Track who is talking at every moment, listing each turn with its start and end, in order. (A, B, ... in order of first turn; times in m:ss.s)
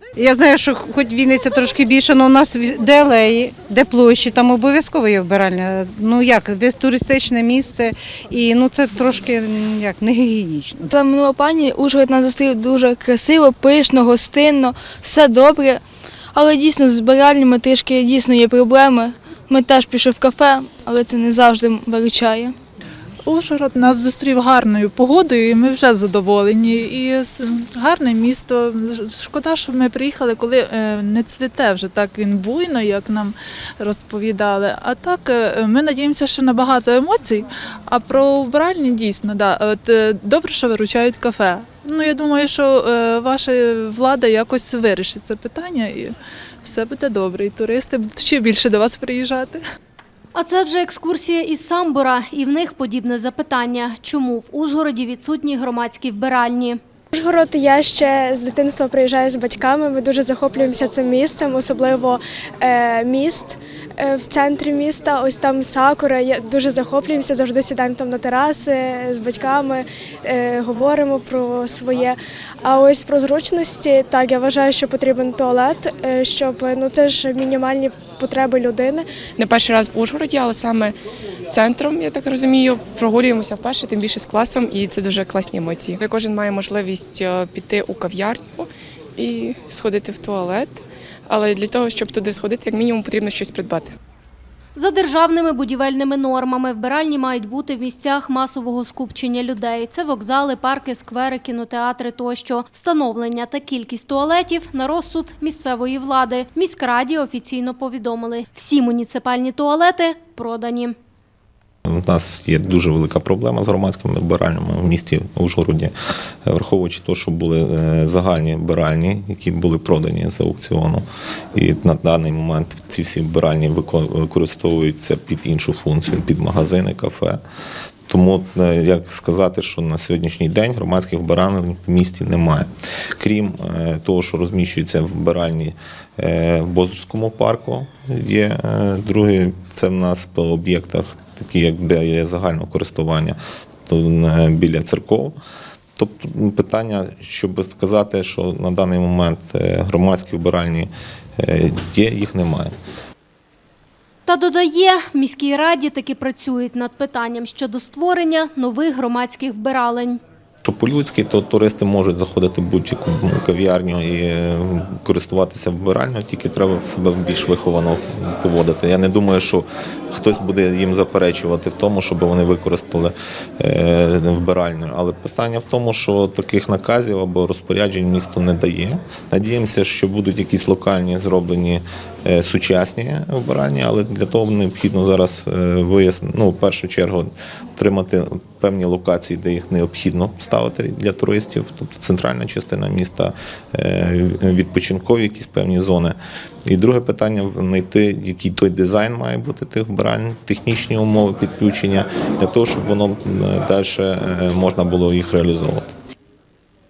0:00.2-0:10.9 A
0:10.9-0:15.8 B
0:16.3-0:22.6 B
0:23.2-0:46.1 C
0:46.6-0:49.6 C
0:50.3-0:56.8 D
0:57.1-1:19.1 E
1:19.4-1:21.0 F
1:21.5-1:33.9 F
1:34.8-1:51.0 D
1:51.9-1:55.9 G
1:56.5-2:07.4 G
2:08.1-2:25.4 G
2:26.0-2:32.8 G
2:34.3-2:40.2 D
2:40.6-3:26.0 G